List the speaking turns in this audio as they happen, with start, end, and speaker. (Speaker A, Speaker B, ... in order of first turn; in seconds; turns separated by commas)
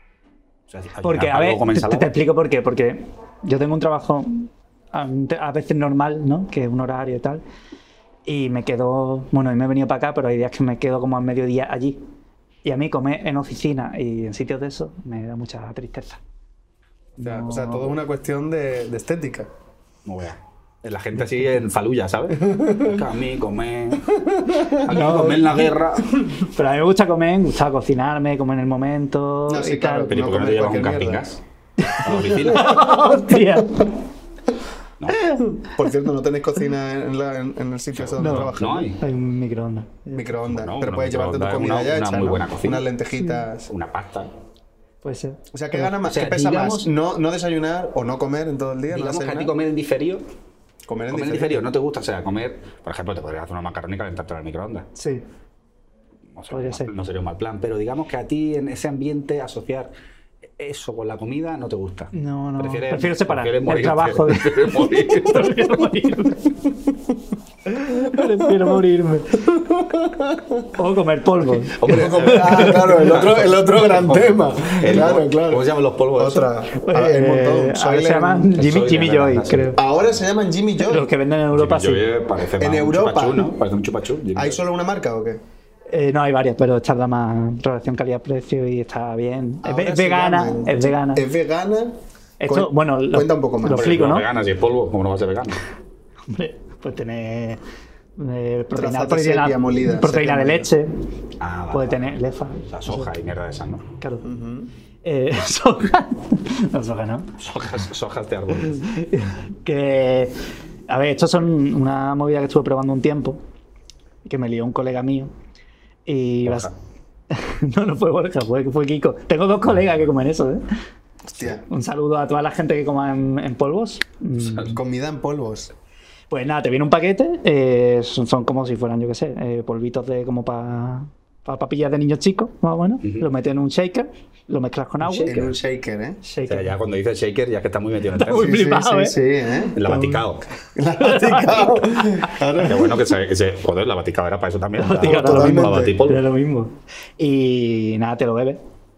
Speaker A: 0.7-2.1, Speaker B: 1.0-7.4, Speaker B: 8.3-12.0, Speaker B: 12.7-16.2, Speaker B: 17.2-17.9, Speaker C: 17.2-19.5, Speaker A: 20.1-26.1, Speaker C: 22.4-23.0, Speaker C: 24.3-25.3, Speaker B: 24.9-25.6, Speaker B: 26.4-30.1, Speaker C: 29.5-31.2, Speaker A: 30.1-31.4, Speaker B: 31.8-33.9, Speaker A: 32.0-32.9, Speaker B: 35.1-35.6, Speaker C: 35.5-38.9, Speaker A: 37.9-39.0, Speaker B: 38.2-40.4, Speaker C: 40.2-43.7, Speaker A: 40.5-42.9, Speaker B: 43.2-43.4, Speaker A: 43.7-44.3, Speaker B: 45.0-45.9, Speaker C: 45.5-49.5, Speaker A: 46.0-46.9, Speaker A: 48.9-50.2, Speaker C: 50.9-51.7, Speaker A: 51.1-54.9, Speaker B: 55.0-55.2, Speaker A: 56.3-59.9, Speaker B: 56.5-56.9, Speaker A: 60.6-65.9, Speaker B: 62.1-66.6, Speaker B: 67.7-69.5, Speaker C: 68.2-68.6, Speaker C: 69.4-70.7, Speaker B: 70.8-73.2, Speaker A: 71.7-76.5, Speaker C: 71.8-78.5, Speaker B: 76.7-79.8, Speaker A: 78.5-79.8, Speaker C: 79.8-81.1, Speaker B: 80.8-82.0, Speaker A: 81.5-84.6, Speaker C: 82.6-83.5, Speaker C: 84.3-85.4, Speaker B: 85.9-91.2, Speaker C: 89.6-93.9, Speaker B: 92.4-94.3, Speaker A: 93.7-95.6, Speaker B: 96.3-97.6, Speaker B: 98.2-101.0, Speaker C: 98.8-100.7, Speaker A: 101.4-102.2, Speaker B: 101.7-103.1, Speaker A: 102.7-103.9, Speaker B: 104.0-104.3, Speaker C: 104.2-104.7, Speaker B: 105.0-107.3, Speaker A: 107.4-108.8, Speaker B: 108.6-110.3, Speaker B: 110.9-113.4, Speaker B: 114.2-115.3, Speaker B: 116.1-116.7, Speaker A: 116.4-116.7, Speaker B: 117.3-120.6, Speaker C: 121.3-121.6, Speaker B: 121.7-124.8, Speaker A: 124.4-124.8, Speaker C: 124.7-125.7, Speaker B: 126.3-135.5, Speaker A: 133.0-133.3, Speaker A: 135.0-135.5, Speaker C: 135.3-136.2, Speaker B: 136.2-136.7, Speaker A: 136.5-138.5, Speaker B: 138.2-139.2, Speaker C: 138.3-140.2, Speaker A: 139.8-140.5, Speaker B: 139.9-140.2, Speaker C: 140.8-143.0, Speaker B: 141.0-142.2, Speaker A: 142.6-146.2, Speaker B: 144.8-148.6, Speaker C: 145.0-146.0